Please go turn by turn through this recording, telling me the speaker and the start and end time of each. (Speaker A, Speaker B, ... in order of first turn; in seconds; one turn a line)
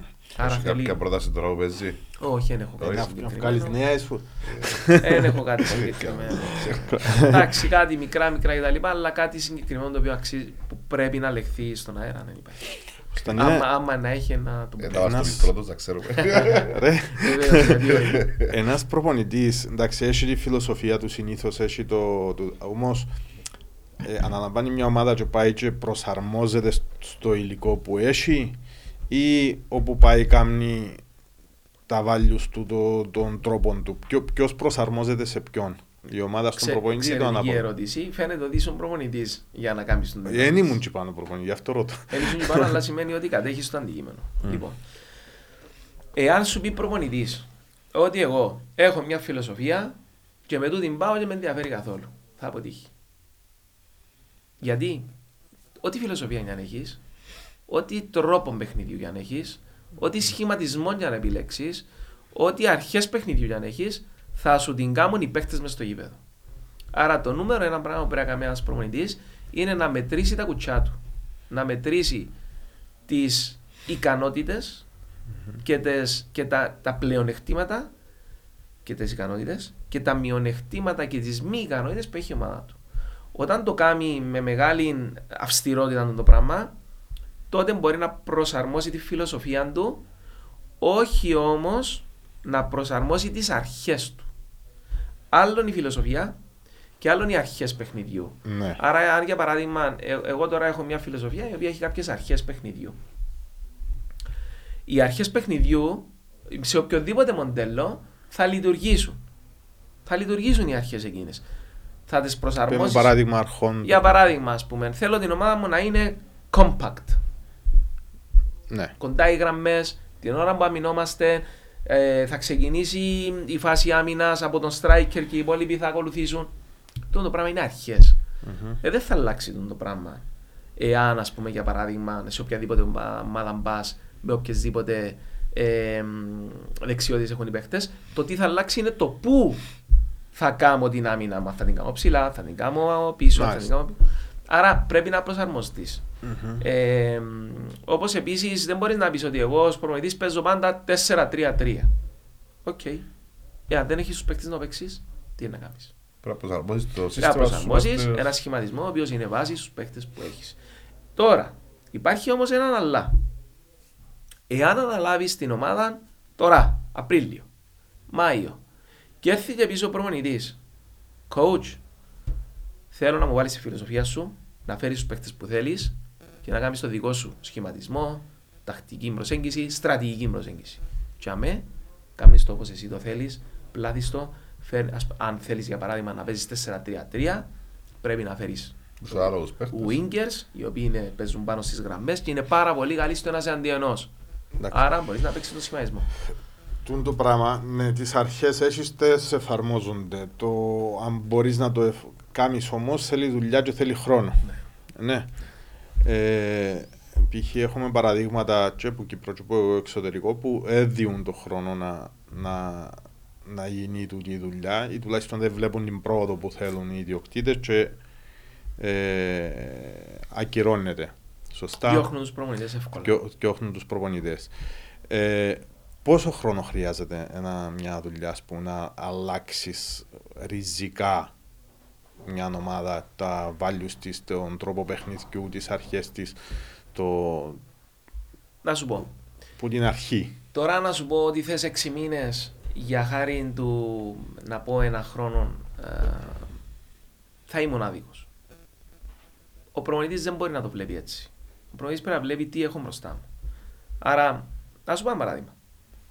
Speaker A: 0.3-1.0
Speaker B: 0.4-2.2
Speaker A: 2.2-3.8
Speaker B: 2.8-3.1
Speaker C: 2.8-5.4
Speaker B: 4.4-4.9
Speaker A: 5.0-15.2
Speaker B: 5.7-7.1
Speaker C: 6.6-7.3
Speaker C: 13.2-13.7
Speaker B: 14.8-16.8
Speaker C: 15.0-15.5
Speaker C: 16.5-17.8
Speaker A: 17.2-18.3
Speaker B: 18.0-18.5
Speaker C: 18.4-23.1
Speaker C: 24.0-28.6
Speaker C: 29.1-31.0
Speaker C: 31.9-37.6
Speaker A: 36.6-40.8
Speaker C: 40.3-42.8
Speaker A: 42.1-44.8
Speaker A: 46.1-52.9
Speaker A: 54.6-55.1
Speaker A: 55.8-57.0
Speaker A: 57.7-66.2
Speaker A: 66.9-71.0
Speaker A: 71.5-72.3
Speaker A: 73.1-74.9
Speaker A: 75.6-77.9
Speaker A: 78.8-82.8
Speaker A: 83.3-86.8
Speaker A: 87.5-90.0
Speaker A: 90.8-94.3
Speaker A: 95.3-96.4
Speaker A: 97.0-103.0
Speaker C: 98.5-98.8
Speaker A: 104.9-109.2
Speaker A: 110.1-111.5
Speaker A: 112.1-113.2
Speaker C: 112.7-114.2
Speaker A: 113.8-117.2
Speaker C: 118.7-119.0
Speaker A: 119.0-126.5
Speaker A: 127.1-128.2
Speaker C: 128.4-128.8
Speaker A: 128.8-130.2
Speaker A: 130.8-139.7
Speaker A: 140.3-146.1
Speaker C: 143.3-143.7
Speaker C: 146.2-146.6
Speaker A: 146.6-151.9
Speaker A: 152.7-153.1
Speaker A: 153.7-155.9
Speaker B: 156.2-158.3
Speaker A: 157.2-160.6
Speaker A: 161.2-163.2
Speaker A: 164.5-167.5
Speaker A: 168.1-168.6
Speaker A: 169.2-170.6
Speaker A: 171.3-171.8
Speaker A: 172.9-187.5
Speaker A: 188.0-194.1
Speaker B: 189.0-190.0
Speaker C: 194.6-194.9
Speaker A: 194.7-196.1
Speaker C: 196.8-204.4
Speaker C: 205.0-205.3
Speaker C: 206.0-218.0
Speaker C: 218.8-222.1
Speaker A: 221.8-223.2
Speaker C: 223.0-224.5
Speaker C: 225.1-231.3
Speaker C: 232.2-236.4
Speaker C: 236.9-237.6
Speaker A: 238.6-239.1
Speaker C: 239.6-240.4
Speaker A: 240.5-246.6
Speaker A: 247.5-248.3
Speaker A: 249.7-253.3
Speaker A: 254.0-255.6